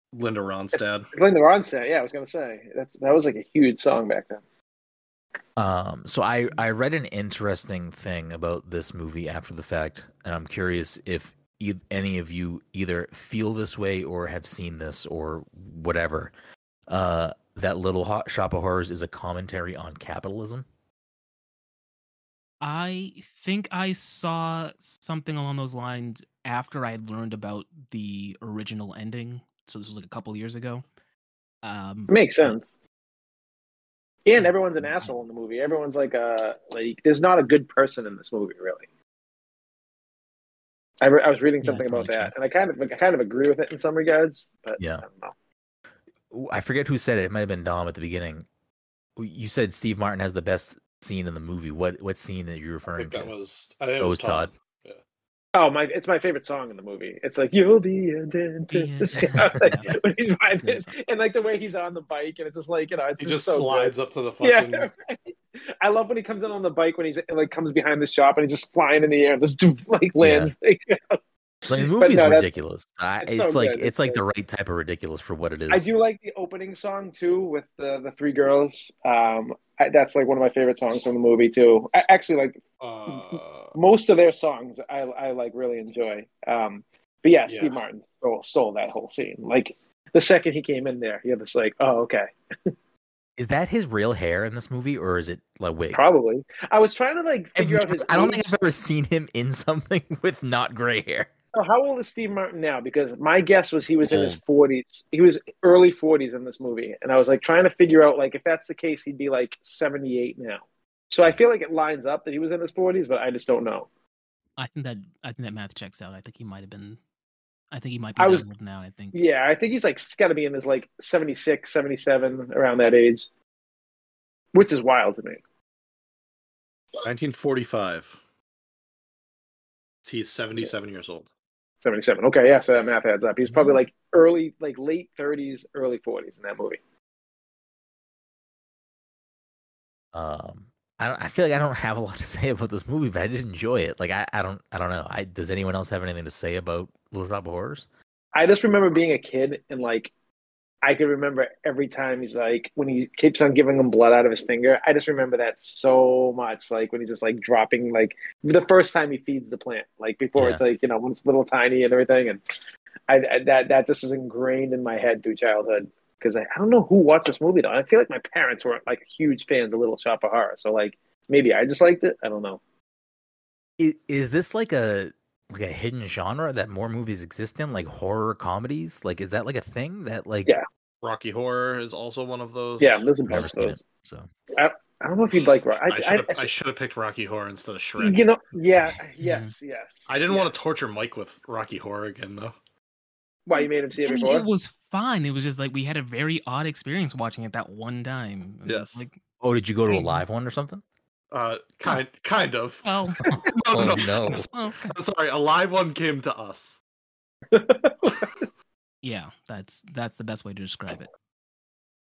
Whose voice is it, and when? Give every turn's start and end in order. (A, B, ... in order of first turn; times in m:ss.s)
0:00.1-0:01.1 A
0:01.1-0:04.4 B
0:05.6-0:16.3 C
0:16.9-0:20.6 C
0:22.6-0:30.8 D
0:31.6-0:32.1 D
0:32.1-0:32.7 B
0:34.2-0:38.8 B
0:34.4-0:35.1 D
0:41.0-0:45.3 B
0:41.6-0:42.3 D
0:44.8-0:45.0 C
0:46.3-0:48.4 C
0:49.2-0:53.3 C
0:53.0-0:55.0 A
0:54.0-0:54.5 C
0:55.5-1:11.2 B
0:58.7-1:00.9 D
1:03.2-1:04.9 A
1:10.2-1:10.5 C
1:11.7-1:15.9 C
1:11.8-1:12.5 B
1:13.2-1:14.2 B
1:15.7-1:32.3 B
1:22.8-1:23.8 A
1:27.5-1:27.7 A
1:33.4-1:36.0 C
1:35.9-1:38.4 B
1:37.6-1:41.3 C
1:41.5-1:53.9 B
1:44.0-1:44.4 C
1:54.6-1:57.0 D
1:57.7-1:59.2 D
1:58.2-1:58.4 B
1:59.1-2:03.3 B
2:04.5-2:05.4 B
2:07.0-2:08.2 A
2:10.0-2:11.3 A
2:11.8-2:16.8 B
2:13.4-2:13.8 C
2:20.1-2:27.8 C
2:28.3-2:30.1 B
2:30.8-2:42.4 B
2:40.4-2:40.6 C
2:43.1-2:52.6 B
2:53.8-3:00.6 C
3:01.0-3:03.1 A
3:02.8-3:03.8 B
3:03.3-3:04.3 C
3:04.5-3:06.5 B
3:05.8-3:08.2 A
3:08.0-3:10.6 B
3:09.2-3:09.5 D
3:10.1-3:12.5 A
3:13.4-3:14.4 B
3:14.0-3:19.2 D
3:18.6-3:19.0 A
3:19.4-3:20.8 C
3:19.8-3:20.2 D
3:21.3-3:22.9 A
3:22.8-3:23.5 D
3:23.4-3:24.3 A
3:23.7-3:24.5 C
3:24.2-3:24.9 D
3:24.8-3:26.8 A
3:27.5-3:28.3 B
3:29.0-3:31.1 D